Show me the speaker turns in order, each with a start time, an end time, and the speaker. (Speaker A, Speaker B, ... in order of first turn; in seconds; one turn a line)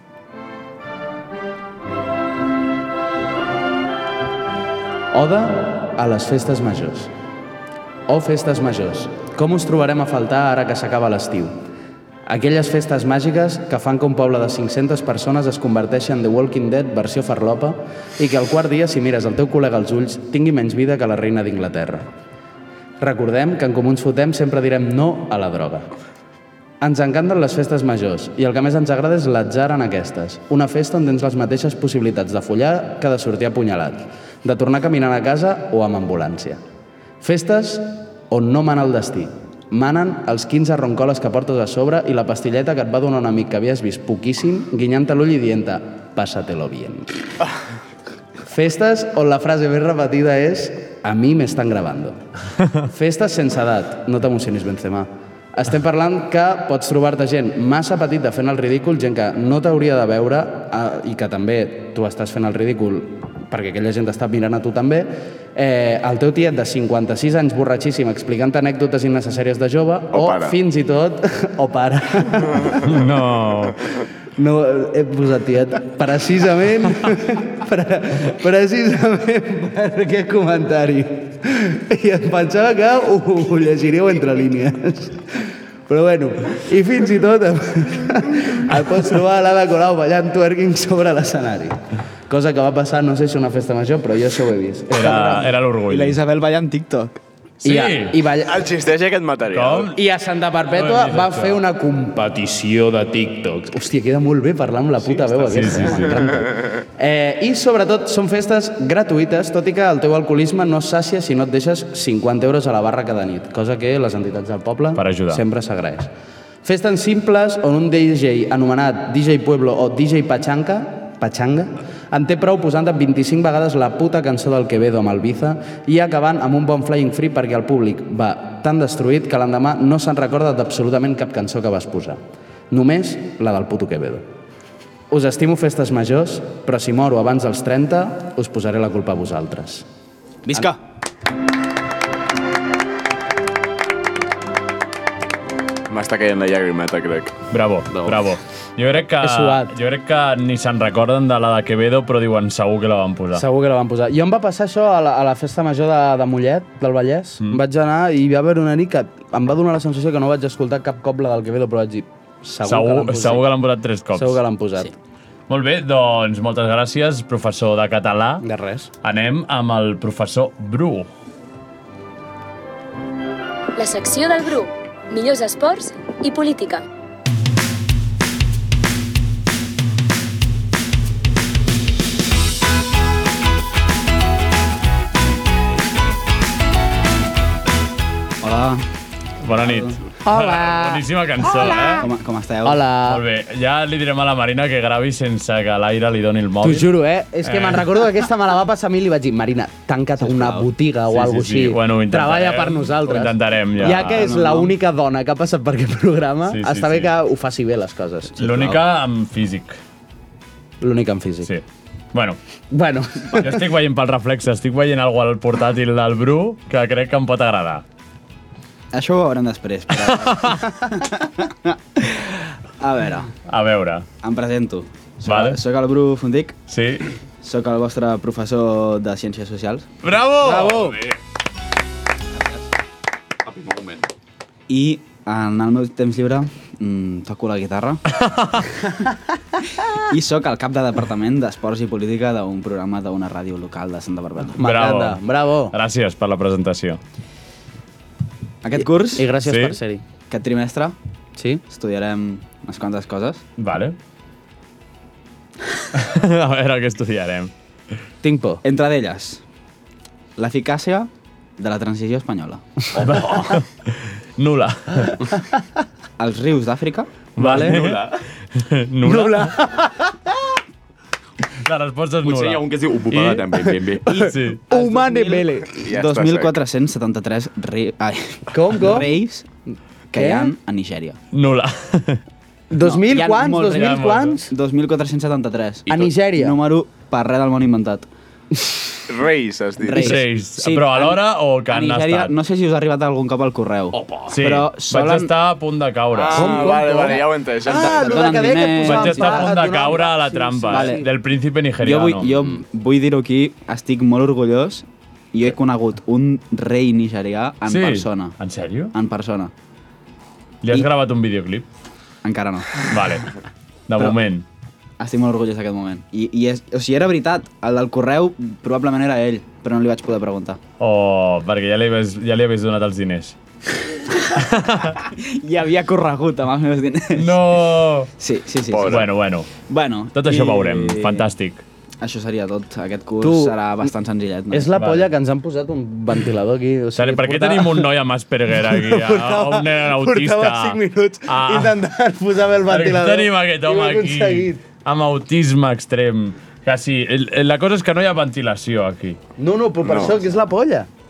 Speaker A: 5.1-7.1
Speaker A: 8.1-11.5
Speaker A: 12.3-22.1
Speaker A: 23.0-25.9
Speaker A: 26.8-36.6
Speaker A: 37.2-47.1
Speaker A: 48.5-52.2
Speaker A: 52.8-72.8
Speaker B: 70.1-70.6
Speaker C: 72.8-73.8
Speaker A: 74.3-91.8
Speaker A: 92.3-95.4
Speaker C: 94.9-96.2
Speaker D: 95.0-97.2
Speaker C: 97.6-98.2
Speaker A: 97.6-98.6
Speaker B: 98.4-99.9
Speaker C: 99.5-100.0
Speaker A: 99.9-116.1
Speaker C: 100.7-101.6
Speaker D: 105.1-106.1
Speaker C: 105.5-106.2
Speaker C: 115.0-115.4
Speaker A: 116.6-134.2
Speaker A: 135.1-139.8
Speaker D: 140.4-140.8
Speaker B: 145.9-147.3
Speaker C: 147.5-153.4
Speaker E: 147.9-148.2
Speaker A: 149.1-149.7
Speaker A: 153.3-163.5
Speaker C: 162.6-164.4
Speaker A: 164.1-164.9
Speaker C: 165.5-168.4
Speaker A: 168.4-168.9
Speaker C: 169.0-171.1
Speaker F: 173.8-176.8
Speaker D: 188.4-188.8
Speaker C: 189.4-192.1
Speaker D: 189.5-189.9
Speaker A: 190.2-191.0
Speaker A: 191.7-192.0
Speaker D: 192.0-192.8
Speaker A: 192.6-193.2
Speaker C: 193.1-196.9
Speaker A: 196.6-208.4
Speaker C: 197.4-197.9
Speaker D: 200.2-200.7
Speaker C: 201.1-204.3
Speaker D: 203.9-204.7
Speaker C: 206.5-207.1
Speaker D: 208.4-208.8
Speaker C: 208.4-209.8
Speaker A: 210.8-211.5
Speaker A: 212.7-213.6
Speaker C: 213.3-217.8
Speaker D: 218.9-223.3
Speaker C: 220.3-220.6
Speaker C: 223.5-224.1
Speaker D: 224.2-226.6
Speaker C: 225.2-225.6
Speaker C: 226.7-227.0
Speaker D: 227.4-229.9
Speaker C: 230.0-230.8
Speaker A: 230.4-231.0
Speaker E: 230.8-231.1
Speaker E: 233.4-234.1
Speaker D: 234.7-238.0
Speaker C: 238.2-238.6
Speaker D: 240.0-244.6
Speaker A: 244.6-245.7
Speaker C: 244.6-245.2
Speaker C: 245.7-247.0
Speaker D: 248.6-249.3
Speaker A: 249.1-250.0
Speaker C: 249.4-249.8
Speaker D: 250.3-250.9
Speaker A: 251.4-251.6
Speaker D: 251.7-253.4
Speaker C: 253.6-253.9
Speaker C: 255.9-257.5
Speaker A: 258.2-258.6
Speaker D: 258.6-259.4
Speaker D: 260.4-262.8
Speaker C: 263.0-265.2
Speaker D: 266.2-267.2
Speaker C: 267.4-269.6
Speaker A: 267.4-267.8
Speaker E: 267.6-268.2
Speaker A: 269.0-270.3
Speaker C: 271.6-273.6
Speaker E: 272.2-274.2
Speaker A: 274.1-275.7
Speaker D: 274.1-279.4
Speaker C: 274.1-274.6
Speaker B: 275.8-276.6
Speaker A: 278.5-279.1
Speaker D: 280.1-281.2
Speaker A: 280.1-280.5
Speaker C: 281.3-282.2
Speaker A: 282.7-284.5
Speaker D: 282.8-288.1
Speaker C: 283.7-284.4
Speaker A: 285.9-286.6
Speaker B: 289.1-290.2
Speaker D: 289.8-295.3
Speaker C: 289.9-292.3
Speaker E: 293.9-294.4
Speaker C: 294.3-296.6
Speaker B: 296.3-298.4
Speaker D: 296.3-299.7
Speaker A: 296.3-301.1
Speaker C: 298.8-302.3
Speaker D: 300.7-301.0
Speaker D: 301.8-308.3
Speaker C: 307.7-308.9
Speaker D: 308.9-309.5
Speaker C: 310.6-311.6
Speaker D: 312.2-313.0
Speaker C: 312.9-313.3
Speaker C: 313.9-314.4
Speaker D: 315.0-320.6
Speaker C: 320.8-323.4
Speaker C: 324.5-324.9
Speaker D: 324.9-327.6
Speaker C: 327.1-328.1
Speaker D: 328.2-329.1
Speaker B: 328.7-329.1
Speaker C: 328.9-329.5
Speaker D: 329.6-331.2
Speaker C: 330.1-331.6
Speaker D: 332.0-334.7
Speaker A: 333.2-333.6
Speaker A: 334.5-337.9
Speaker C: 334.8-335.1
Speaker C: 336.9-341.8
Speaker A: 338.6-344.6
Speaker C: 342.7-349.2
Speaker A: 349.4-350.9
Speaker B: 349.8-350.2